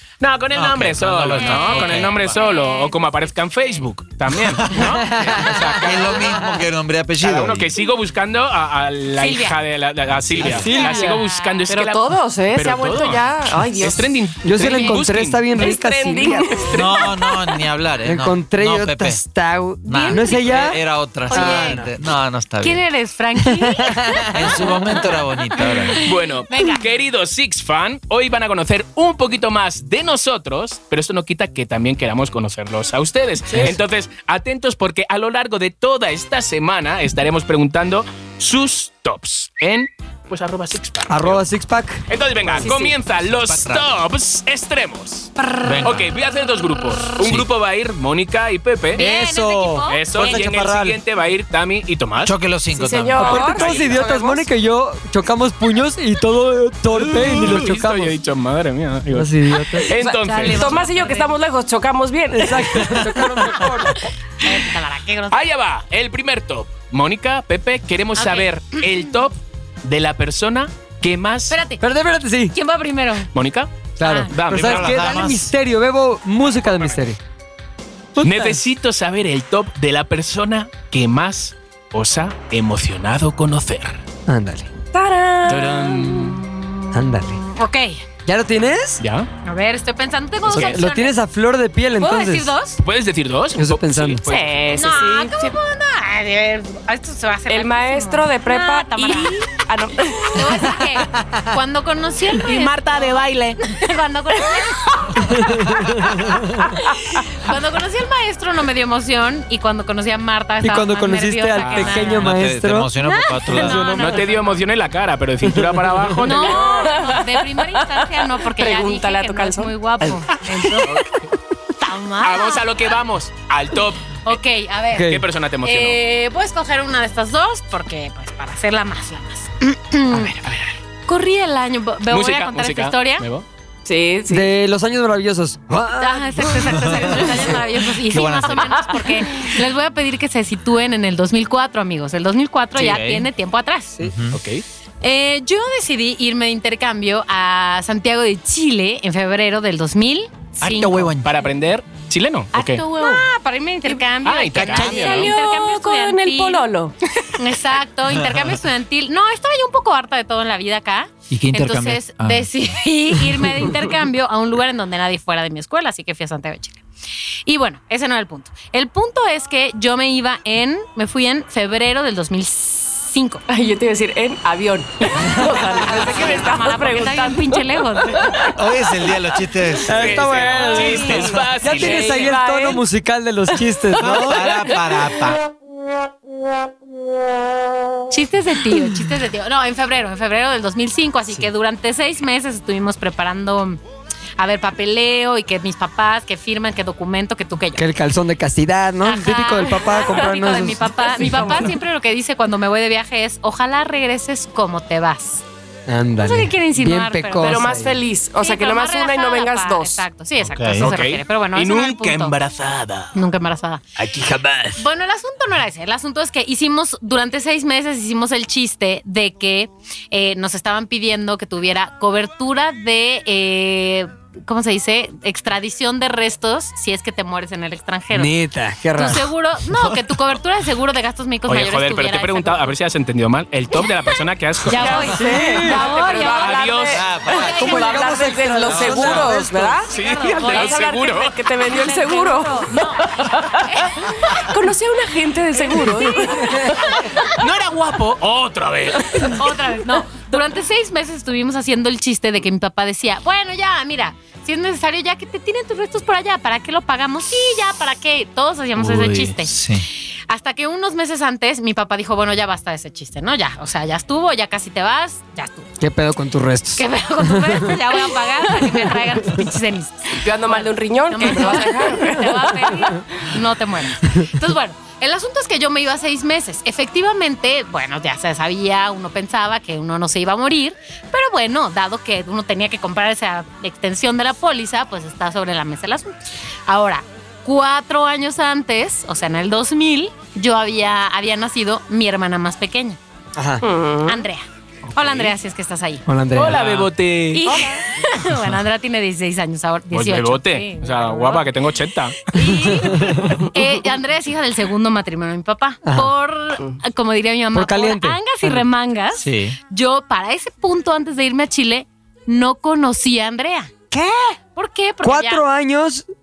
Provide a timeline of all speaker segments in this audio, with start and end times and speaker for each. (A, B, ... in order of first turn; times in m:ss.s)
0:00.2-0:06.3 A
0:00.5-0:02.4 B
0:01.4-0:02.9 C
0:04.4-0:04.9 B
0:04.7-0:06.5 D
0:05.7-0:07.6 B
0:07.2-0:15.4 A
0:09.2-0:09.6 C
0:10.3-0:10.7 B
0:10.4-0:11.2 D
0:10.5-0:11.7 C
0:11.7-0:14.2 E
0:14.4-0:16.7 D
0:14.6-0:15.0 C
0:15.5-0:17.6 E
0:16.7-0:19.2 B
0:18.0-0:21.9 D
0:19.8-0:22.8 B
0:19.9-0:20.5 C
0:21.3-0:21.8 C
0:22.6-0:26.8 C
0:23.4-0:24.6 D
0:24.3-0:26.1 B
0:26.0-0:41.4 A
0:41.1-0:42.0 D
0:42.1-0:49.0 A
0:42.6-0:43.0 E
0:43.2-0:43.9 B
0:45.6-0:46.0 B
0:47.2-0:47.5 B
0:48.9-0:50.0 C
0:48.9-0:51.0 D
0:49.9-0:52.3 A
0:52.2-0:53.7 B
0:52.7-0:54.4 E
0:53.2-0:58.1 D
0:53.2-0:54.0 A
0:57.0-0:59.3 A
0:59.1-0:59.9 D
0:59.7-1:03.2 E
0:59.9-1:00.9 A
1:00.1-1:01.4 C
1:02.3-1:04.0 D
1:04.4-1:05.4 C
1:05.3-1:11.6 A
1:08.1-1:08.8 C
1:11.5-1:11.8 C
1:11.8-1:12.5 D
1:12.5-1:13.3 C
1:13.3-1:13.7 A
1:14.0-1:17.2 D
1:14.0-1:14.3 C
1:14.3-1:15.2 A
1:14.5-1:15.5 B
1:18.2-1:18.6 D
1:18.2-1:24.0 A
1:24.3-1:24.7 D
1:24.9-1:26.4 E
1:25.5-1:26.4 A
1:26.9-1:27.4 D
1:27.2-1:28.0 C
1:28.2-1:29.0 D
1:29.0-1:29.3 A
1:29.4-1:31.2 C
1:30.5-1:32.5 D
1:32.0-1:32.8 C
1:32.8-1:34.9 A
1:33.5-1:34.2 D
1:34.2-1:35.6 E
1:34.8-1:39.4 C
1:37.5-1:40.7 E
1:40.3-1:46.4 C
1:42.5-1:43.5 A
1:45.2-1:46.7 D
1:47.2-1:52.3 C
1:50.6-1:52.9 D
1:51.6-1:52.0 A
1:52.0-1:54.0 B
1:53.0-1:54.6 C
1:53.8-1:54.2 E
1:54.0-1:56.9 A
1:55.5-1:56.3 D
1:56.2-2:00.9 C
1:56.3-2:00.8 E
2:00.8-2:01.3 A
2:01.8-2:02.8 C
2:02.2-2:04.4 A
2:04.2-2:05.1 C
2:04.9-2:05.2 D
2:05.0-2:06.0 A
2:05.6-2:10.4 C
2:10.1-2:10.7 A
2:11.1-2:13.2 C
2:12.1-2:13.4 A
2:13.8-2:14.5 E
2:14.3-2:17.6 D
2:16.0-2:24.0 C
2:18.1-2:18.8 B
2:18.9-2:19.2 E
2:22.8-2:23.3 B
2:24.0-2:24.4 B
2:24.3-2:24.6 A
2:25.0-2:31.1 C
2:30.6-2:31.3 B
2:31.2-2:32.8 A
2:32.5-2:36.7 C
2:33.0-2:33.3 E
2:34.2-2:35.4 A
2:34.6-2:36.9 E
2:37.4-2:46.8 C
2:38.1-2:38.6 B
2:41.3-2:42.5 B
2:47.4-2:53.4 C
2:53.5-2:59.2 E
2:55.4-2:55.6 D
2:55.6-2:58.4 C
2:58.5-3:01.6 B
2:59.8-3:04.6 D
2:59.9-3:02.4 A
3:00.7-3:01.1 C
3:00.8-3:02.8 E
3:04.0-3:05.4 B
3:04.0-3:05.1 E
3:08.1-3:13.8 C
3:14.4-3:17.8 C
3:17.8-3:21.7 D
3:19.0-3:25.4 C
3:21.0-3:21.7 E
3:25.9-3:28.0 D
3:26.2-3:27.6 C
3:27.4-3:30.0 E
3:28.4-3:32.4 C
3:30.4-3:30.9 B
3:30.8-3:33.1 A
3:33.1-3:33.8 C
3:34.0-3:34.8 D
3:34.8-3:48.3 C
3:48.1-3:49.3 D
3:48.9-3:52.7 C
3:51.5-3:55.2 A
3:54.7-3:56.7 C
3:54.7-4:07.1 E
3:55.2-3:55.9 D
3:56.1-3:57.1 A
3:56.9-3:57.7 B
3:57.2-3:57.9 C
3:57.4-3:59.8 D
3:58.6-3:59.3 B
3:59.9-4:00.8 C
3:59.9-4:01.4 A
4:01.6-4:04.4 C
4:05.8-4:07.3 C
4:07.2-4:09.4 A
4:09.0-4:09.3 E
4:09.3-4:19.5 C
4:18.8-4:19.9 B
4:20.3-4:25.7 C
4:25.8-4:27.8 D
4:26.8-4:53.0 C
4:30.1-4:33.0 E
4:53.4-4:53.6 D
4:53.6-4:54.2 E
4:54.1-4:56.0 C
4:55.0-4:55.3 A
4:56.1-4:56.9 D
4:56.3-4:57.4 A
4:57.3-5:01.5 C
4:59.9-5:02.2 A
5:02.3-5:13.7 C
5:02.3-5:03.4 D
5:05.8-5:06.1 D
5:07.5-5:08.6 D
5:09.1-5:09.6 B
5:13.9-5:14.4 D
5:14.5-5:15.4 C
5:15.0-5:16.1 D